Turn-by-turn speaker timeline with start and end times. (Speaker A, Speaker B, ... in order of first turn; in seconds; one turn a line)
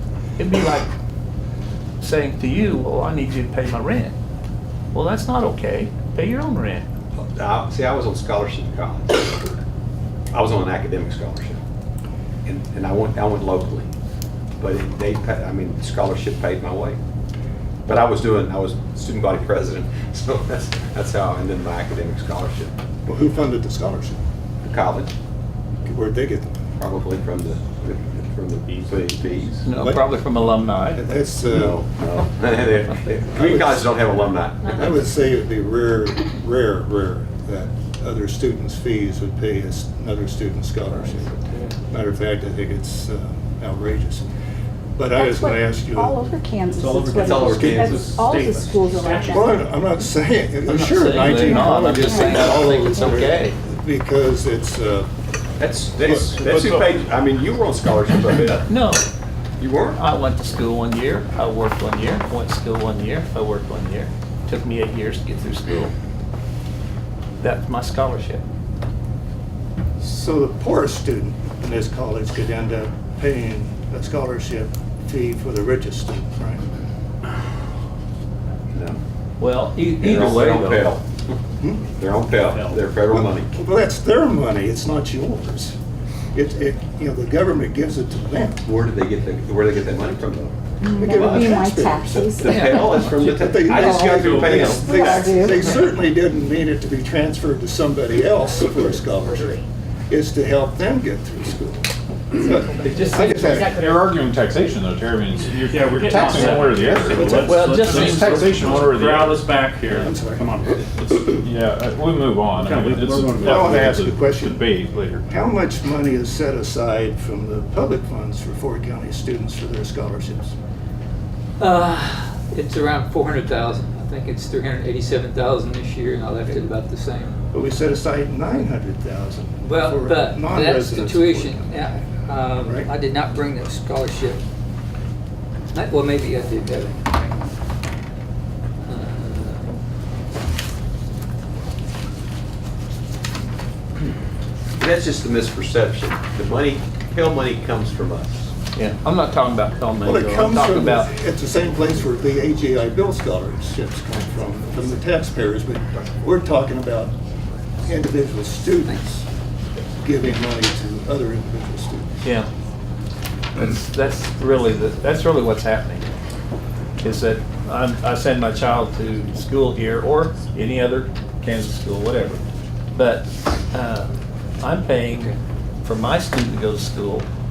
Speaker A: 0.4-0.9
Speaker A: 2.0-4.2
Speaker A: 4.9-6.9
Speaker B: 7.2-9.6
Speaker B: 10.3-11.6
Speaker B: 12.5-13.9
Speaker B: 14.6-17.0
Speaker B: 17.9-22.7
Speaker C: 23.1-24.2
Speaker B: 24.6-25.1
Speaker C: 25.8-26.8
Speaker B: 26.8-29.6
Speaker A: 29.5-31.0
Speaker C: 29.7-30.1
Speaker C: 30.8-31.8
Speaker B: 31.5-35.1
Speaker C: 33.3-34.1
Speaker C: 34.7-44.3
Speaker A: 40.9-41.7
Speaker C: 45.0-46.3
Speaker D: 45.1-49.6
Speaker E: 46.8-49.5
Speaker B: 47.1-48.6
Speaker C: 47.4-48.0
Speaker C: 49.3-55.1
Speaker A: 50.6-53.6
Speaker D: 51.2-53.1
Speaker B: 55.6-58.7
Speaker C: 56.0-56.8
Speaker A: 58.7-59.0
Speaker B: 59.6-60.0
Speaker A: 59.9-65.9
Speaker A: 67.4-68.4
Speaker C: 70.0-76.7
Speaker B: 78.7-79.0
Speaker A: 79.4-81.0
Speaker B: 80.0-81.4
Speaker C: 81.6-82.0
Speaker B: 82.0-83.6
Speaker E: 82.4-82.8
Speaker C: 83.0-85.8
Speaker C: 86.3-88.7
Speaker B: 88.7-95.2
Speaker D: 90.8-96.1
Speaker C: 91.0-92.1
Speaker C: 93.3-103.8
Speaker D: 98.9-99.5
Speaker D: 102.9-104.1
Speaker F: 103.4-109.5
Speaker E: 105.7-110.9
Speaker C: 106.8-107.4
Speaker A: 107.4-108.7
Speaker C: 110.0-110.6
Speaker F: 110.9-115.2
Speaker E: 112.6-113.9
Speaker C: 113.5-114.7
Speaker C: 115.2-120.5
Speaker G: 121.6-127.3
Speaker C: 127.5-132.9
Speaker G: 129.7-134.4
Speaker G: 135.7-137.3
Speaker G: 138.8-139.8
Speaker B: 144.8-148.5
Speaker A: 148.7-151.1
Speaker C: 150.0-157.2
Speaker C: 157.8-159.3
Speaker C: 160.0-162.2
Speaker A: 162.2-162.5
Speaker A: 163.6-166.1
Speaker A: 167.0-172.4
Speaker A: 173.0-177.3